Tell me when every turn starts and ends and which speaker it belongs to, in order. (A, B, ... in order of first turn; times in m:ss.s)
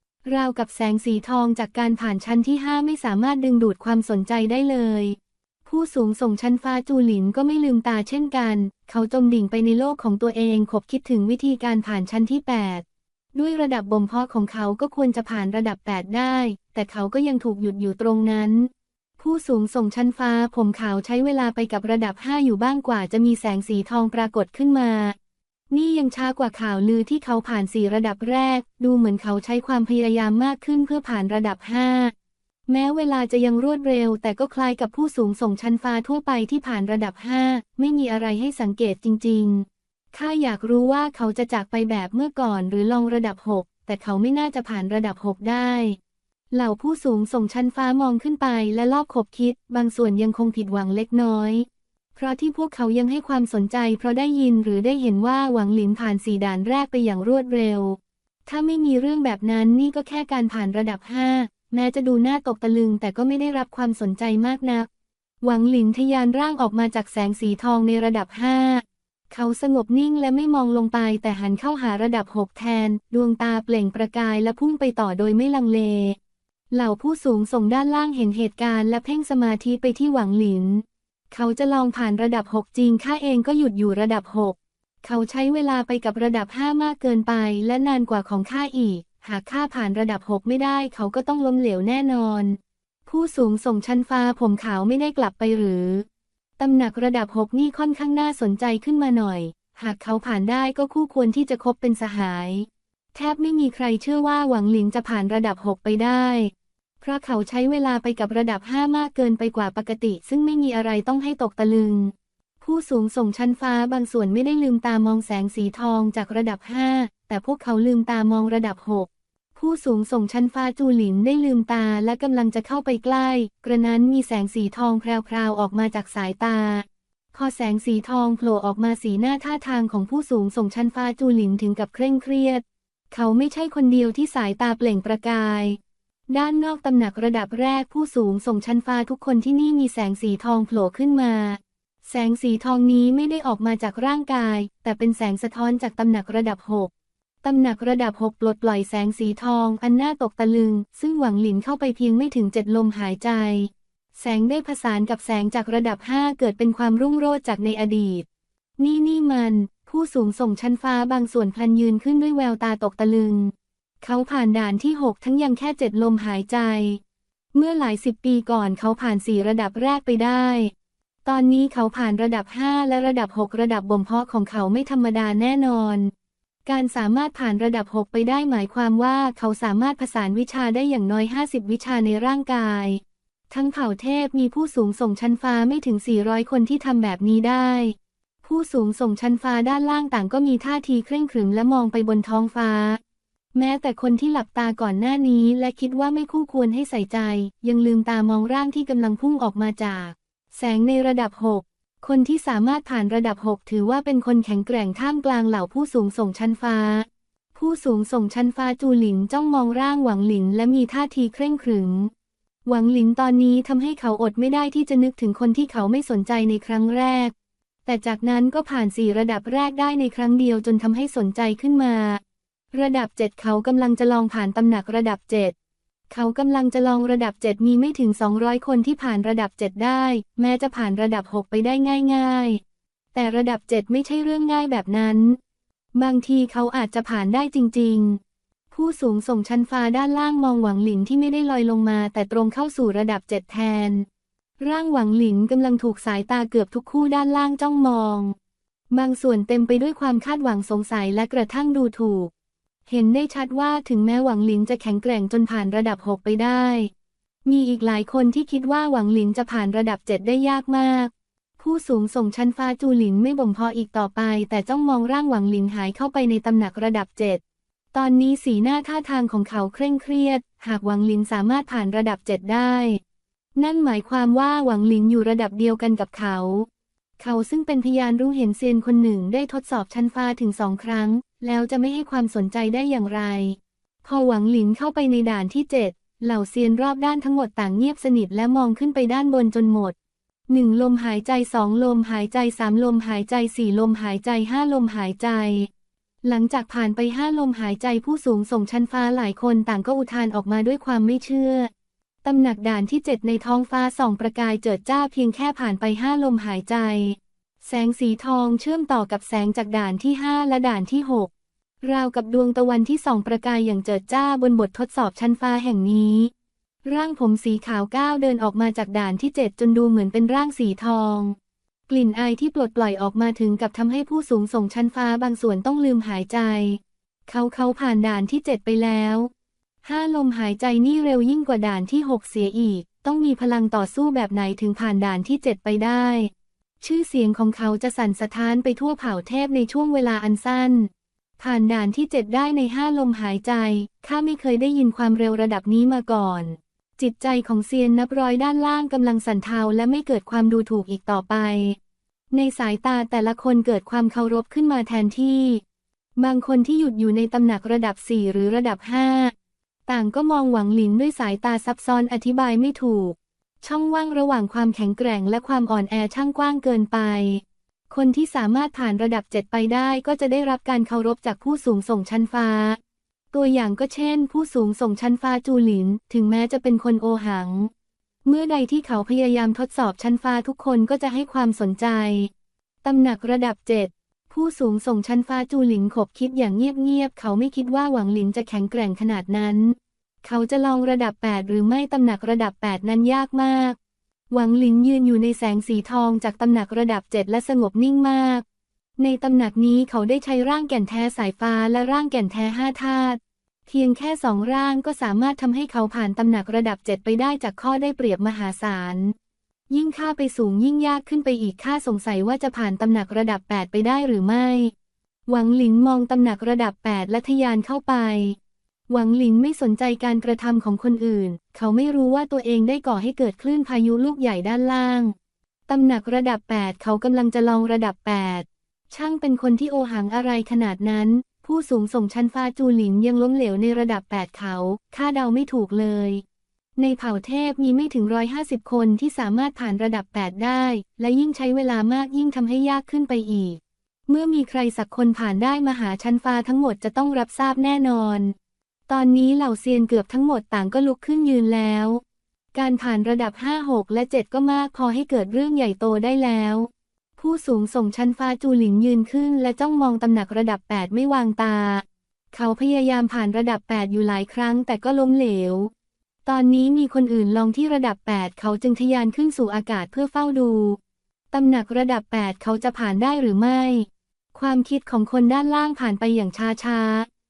0:00.2-0:25.2 A
0:25.7-0:32.1 A
0:32.7-0:46.0 A
0:46.5-1:04.9 A
1:05.4-1:16.2 A
1:16.7-1:36.0 A
1:36.6-2:15.8 A
2:16.3-2:26.9 A
2:27.4-2:38.2 A
2:38.8-2:47.0 A
2:47.5-2:50.7 A
2:51.2-2:56.1 A
2:56.6-3:13.0 A
3:13.5-3:32.1 A
3:32.7-3:37.3 A
3:37.8-3:42.2 A
3:42.7-3:45.5 A
3:46.1-3:52.6 A
3:53.1-3:55.4 A
3:55.9-3:58.2 A
3:58.7-4:04.0 A
4:04.6-4:08.3 A
4:08.9-4:12.3 A
4:12.9-4:16.9 A
4:17.4-4:27.4 A
4:27.9-4:33.0 A
4:33.6-4:36.7 A
4:37.2-4:49.9 A
4:50.5-4:55.7 A
4:56.2-5:01.7 A
5:02.2-5:11.3 A
5:11.8-5:16.3 A
5:16.8-5:21.4 A
5:21.9-5:29.3 A
5:29.8-5:51.8 A
5:52.3-5:55.6 A
5:56.2-5:59.3 A
5:59.9-6:12.8 A
6:13.3-6:17.7 A
6:18.2-6:22.3 A
6:22.8-6:33.8 A
6:34.3-6:38.4 A
6:39.0-6:49.1 A
6:49.7-6:54.7 A
6:55.3-6:58.4 A
6:58.9-7:05.1 A
7:05.7-7:16.2 A
7:16.8-7:28.3 A
7:28.9-7:32.0 A
7:32.5-7:45.7 A
7:46.2-7:50.8 A
7:51.3-7:57.1 A